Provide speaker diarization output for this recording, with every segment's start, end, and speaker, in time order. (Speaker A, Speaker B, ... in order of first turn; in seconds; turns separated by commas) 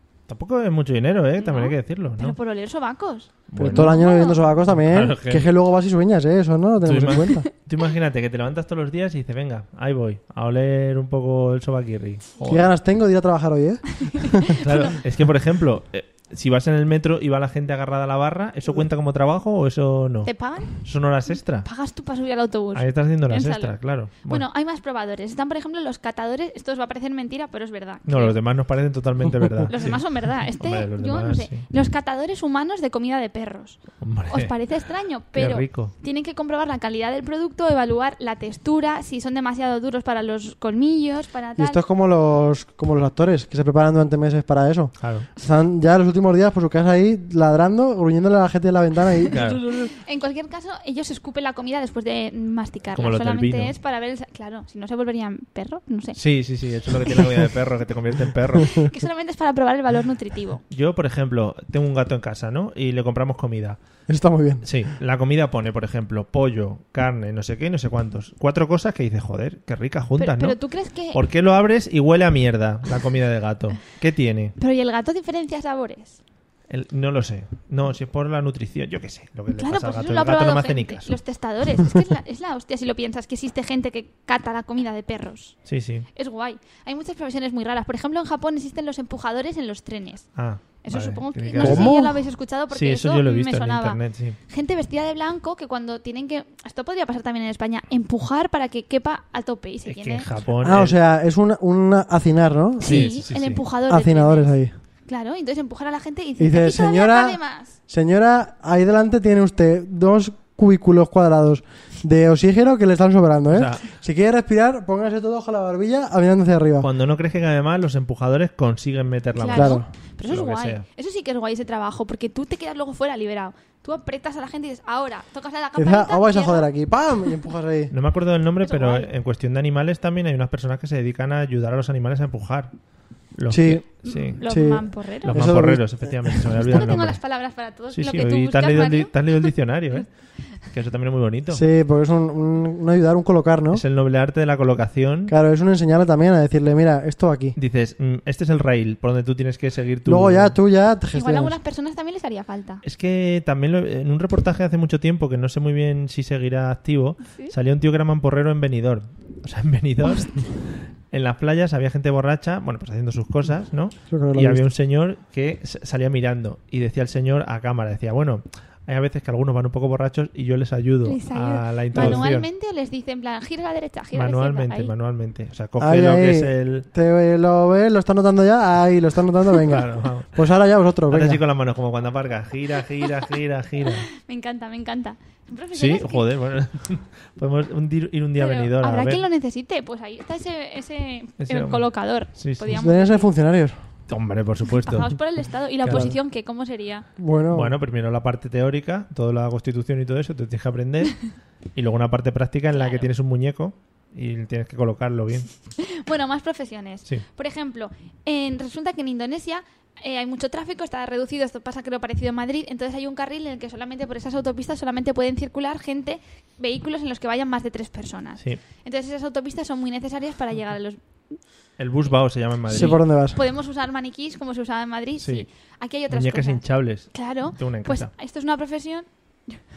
Speaker A: 0.3-2.4, Speaker B: 1.4-4.4, Speaker A: 3.5-4.0, Speaker C: 3.6-7.4, Speaker A: 4.7-5.5, Speaker A: 6.8-12.7, Speaker C: 12.4-14.5, Speaker B: 14.1-14.9, Speaker A: 14.6-21.7, Speaker B: 20.2-28.4, Speaker A: 22.7-24.4, Speaker A: 28.1-31.6, Speaker B: 29.7-41.8, Speaker A: 34.0-34.6, Speaker A: 35.3-35.9, Speaker C: 41.6-49.4, Speaker A: 45.0-45.3, Speaker A: 49.3-49.9, Speaker B: 49.3-56.2, Speaker A: 52.9-53.7, Speaker A: 56.1-58.9, Speaker B: 58.7-60.6, Speaker A: 60.7-63.8, Speaker C: 64.1-64.7, Speaker A: 64.6-70.6, Speaker B: 70.2-71.2, Speaker A: 71.1-74.5, Speaker B: 74.6-76.2, Speaker A: 76.7-81.1, Speaker B: 79.5-85.6, Speaker A: 85.7-86.1, Speaker B: 86.1-100.3, Speaker A: 90.3-92.0, Speaker C: 91.5-92.2, Speaker A: 92.7-94.4, Speaker A: 99.8-101.0, Speaker C: 100.6-103.2, Speaker B: 102.8-104.5, Speaker A: 102.8-103.6, Speaker C: 103.9-104.7, Speaker B: 105.1-107.8, Speaker C: 106.4-116.9, Speaker A: 113.5-113.8, Speaker A: 116.8-120.8, Speaker B: 119.3-126.7, Speaker C: 119.5-119.9, Speaker C: 125.8-127.9, Speaker A: 127.9-132.7, Speaker B: 128.6-129.1, Speaker A: 133.3-134.4, Speaker C: 133.5-133.9, Speaker B: 134.0-135.4, Speaker C: 134.4-136.6, Speaker A: 135.2-137.2, Speaker B: 136.7-139.5, Speaker A: 137.9-140.1, Speaker A: 140.6-141.6, Speaker C: 141.5-143.8, Speaker A: 143.7-145.3, Speaker C: 145.3-147.5, Speaker A: 147.6-150.6, Speaker C: 150.0-151.5, Speaker B: 151.1-152.8, Speaker A: 152.8-172.5, Speaker B: 157.2-157.5, Speaker C: 164.1-164.6, Speaker B: 171.0-174.9, Speaker C: 171.9-172.2, Speaker A: 174.1-176.8, Speaker C: 175.8-181.4, Speaker A: 179.7-180.3, Speaker A: 181.1-184.1, Speaker B: 184.2-186.2, Speaker A: 185.7-189.2, Speaker B: 188.4-193.3, Speaker A: 191.4-192.8, Speaker C: 192.7-193.8, Speaker A: 194.1-195.2, Speaker B: 194.8-197.1, Speaker A: 195.8-196.1, Speaker C: 195.9-196.1, Speaker C: 197.2-197.7, Speaker A: 197.5-205.5, Speaker B: 202.7-203.1, Speaker B: 205.8-221.4, Speaker A: 221.8-223.0, Speaker C: 222.7-223.4, Speaker B: 222.7-229.6, Speaker A: 225.2-225.5, Speaker A: 226.1-228.1